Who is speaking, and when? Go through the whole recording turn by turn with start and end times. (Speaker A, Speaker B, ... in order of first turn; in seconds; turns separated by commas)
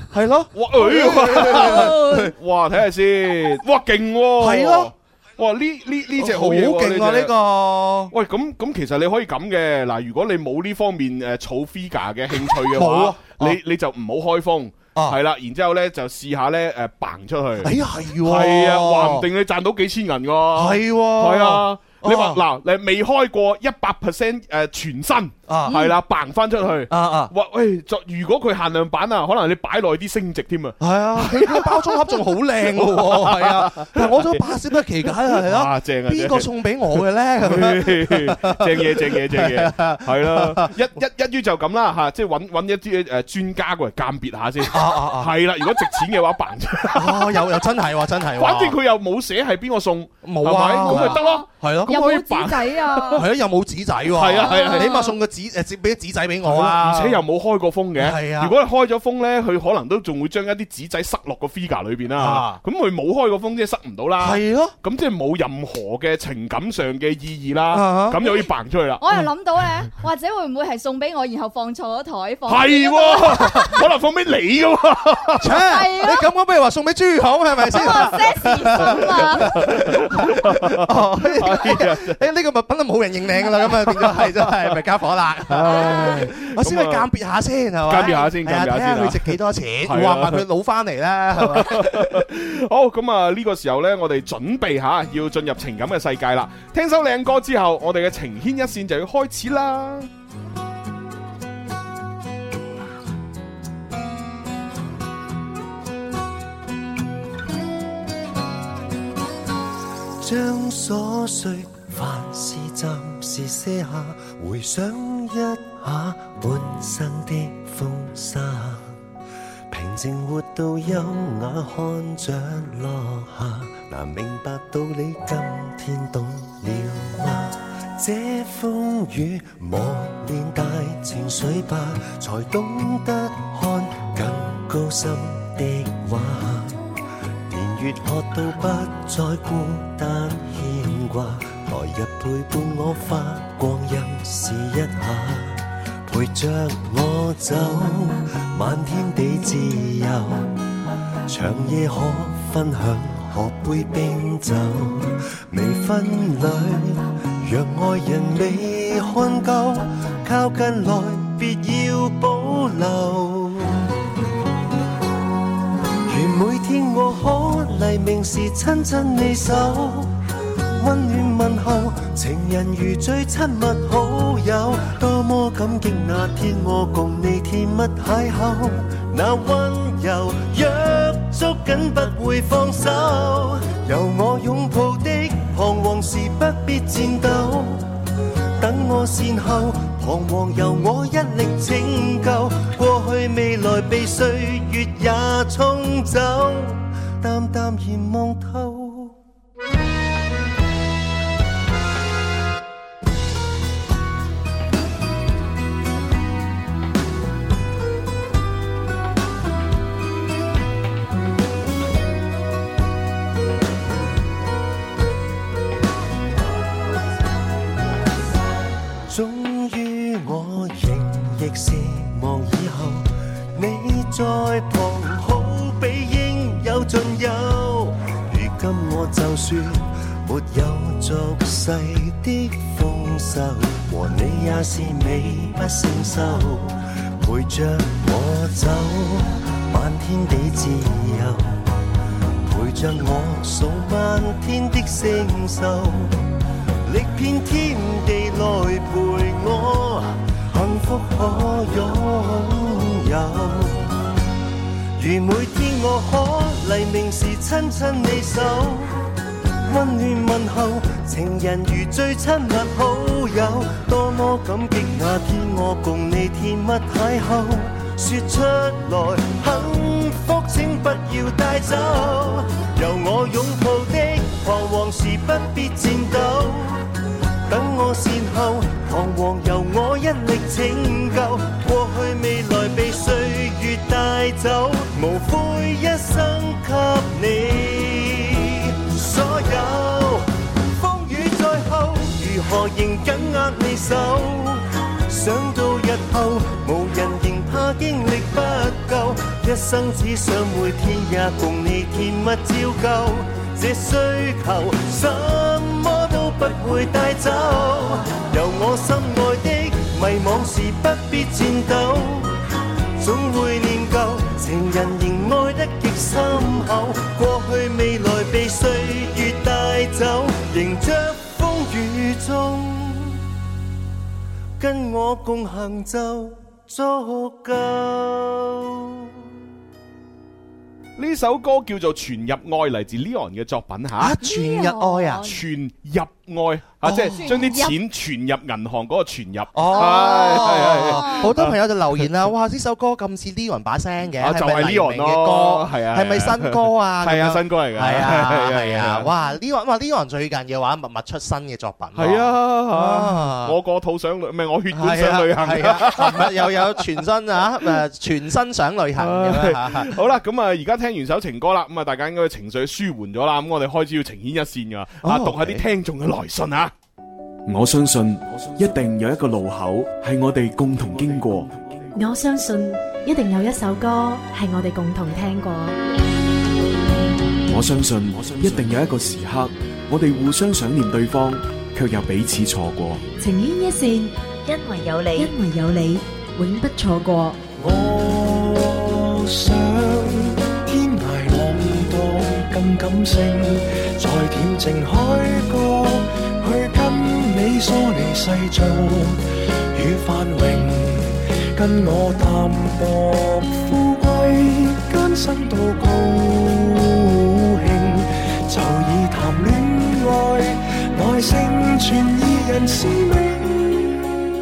Speaker A: 0.1-2.3, Speaker B: 0.5-7.3, Speaker C: 1.6-2.2, Speaker A: 4.4-4.9, Speaker A: 6.2-8.1, Speaker B: 8.1-47.6, Speaker A: 12.7-13.6, Speaker A: 17.6-19.2, Speaker A: 20.5-22.4, Speaker A: 25.5-25.9, Speaker A: 26.9-27.3, Speaker A: 30.8-40.7, Speaker A: 44.7-45.3, Speaker A: 46.9-48.8, Speaker B: 48.4-53.3, Speaker A: 50.2-52.0, Speaker C: 50.9-53.2, Speaker A: 53.1-57.2, Speaker B: 54.1-55.0, Speaker C: 54.4-55.1, Speaker B: 56.4-69.0, Speaker A: 58.0-58.5, Speaker A: 62.1-62.6, Speaker A: 64.2-64.7, Speaker A: 67.7-68.2, Speaker C: 69.0-73.8, Speaker B: 72.5-75.6, Speaker A: 75.4-92.2, Speaker C: 75.6-76.2, Speaker C: 77.7-79.5, Speaker B: 78.8-82.2, Speaker B: 83.6-84.8, Speaker B: 85.5-87.1, Speaker B: 87.9-90.4, Speaker C: 88.0-88.3, Speaker B: 91.4-100.1, Speaker D: 110.2-119.0, Speaker D: 119.7-136.8, Speaker D: 137.5-150.6, Speaker D: 151.3-163.9, Speaker D: 166.1-170.1, Speaker D: 170.8-187.9, Speaker D: 188.6-199.2, Speaker D: 219.1-241.7, Speaker D: 242.4-246.2, Speaker D: 246.8-254.0, Speaker D: 255.0-259.0, Speaker D: 259.6-276.8, Speaker D: 277.5-312.4, Speaker D: 313.0-323.2, Speaker D: 324.6-329.1, Speaker B: 331.0-334.1, Speaker A: 333.9-335.3, Speaker C: 334.2-335.4, Speaker B: 335.2-342.1, Speaker A: 336.8-337.6, Speaker C: 337.1-337.8, Speaker A: 339.5-353.6, Speaker C: 339.8-341.3, Speaker B: 344.2-349.1, Speaker B: 351.9-356.8, Speaker A: 354.7-359.9, Speaker B: 359.0-366.7, Speaker A: 365.0-365.6, Speaker E: 367.4-371.5, Speaker F: 371.9-375.8, Speaker E: 377.5-383.1, Speaker F: 383.2-387.4, Speaker G: 387.6-414.1